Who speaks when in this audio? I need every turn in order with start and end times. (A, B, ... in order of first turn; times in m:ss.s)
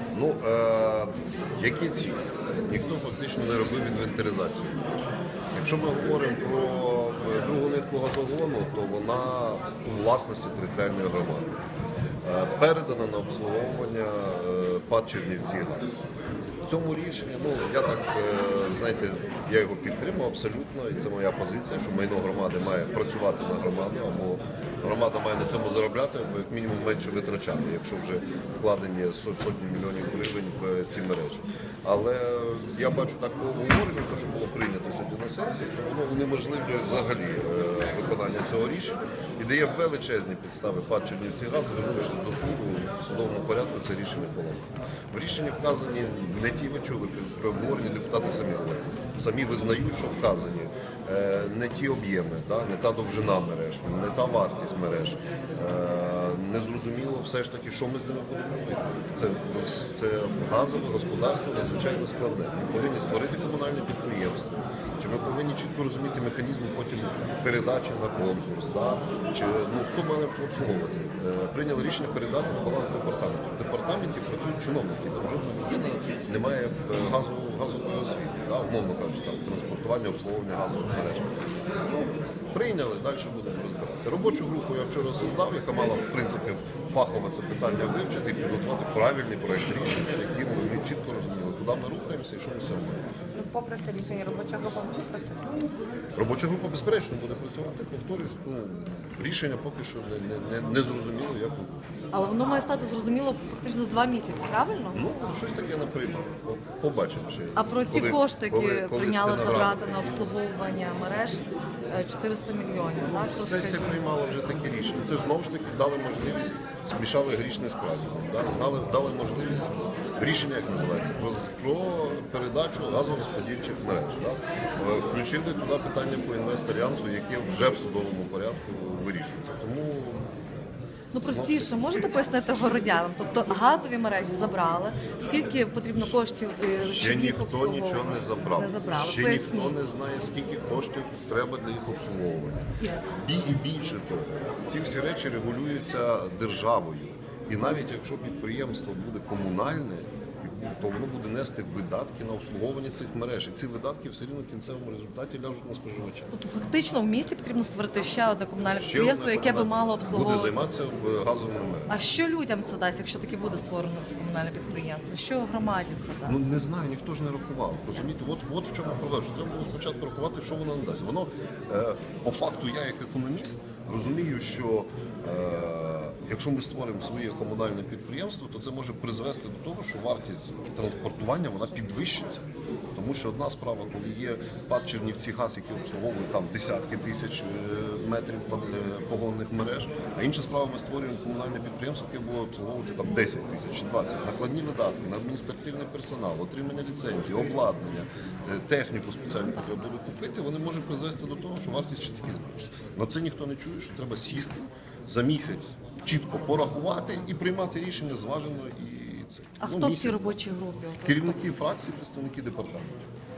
0:00.1-0:05.0 A
0:05.5-0:11.6 A
0:12.2-0:16.0 A
0:16.6-1:21.3 A
1:21.8-1:33.0 A
1:33.3-1:35.8 B
1:36.2-1:41.9 A
1:42.1-1:45.0 C
1:44.9-1:50.3 A
1:47.6-1:54.2 C
1:53.0-2:10.4 A
2:11.1-2:19.9 C
2:11.2-2:11.8 A
2:16.8-2:36.3 A
2:36.3-2:40.5 C
2:38.8-2:42.0 A
2:41.9-2:46.6 C
2:46.2-3:30.4 A
3:29.6-3:31.4 C
3:31.0-3:33.1 A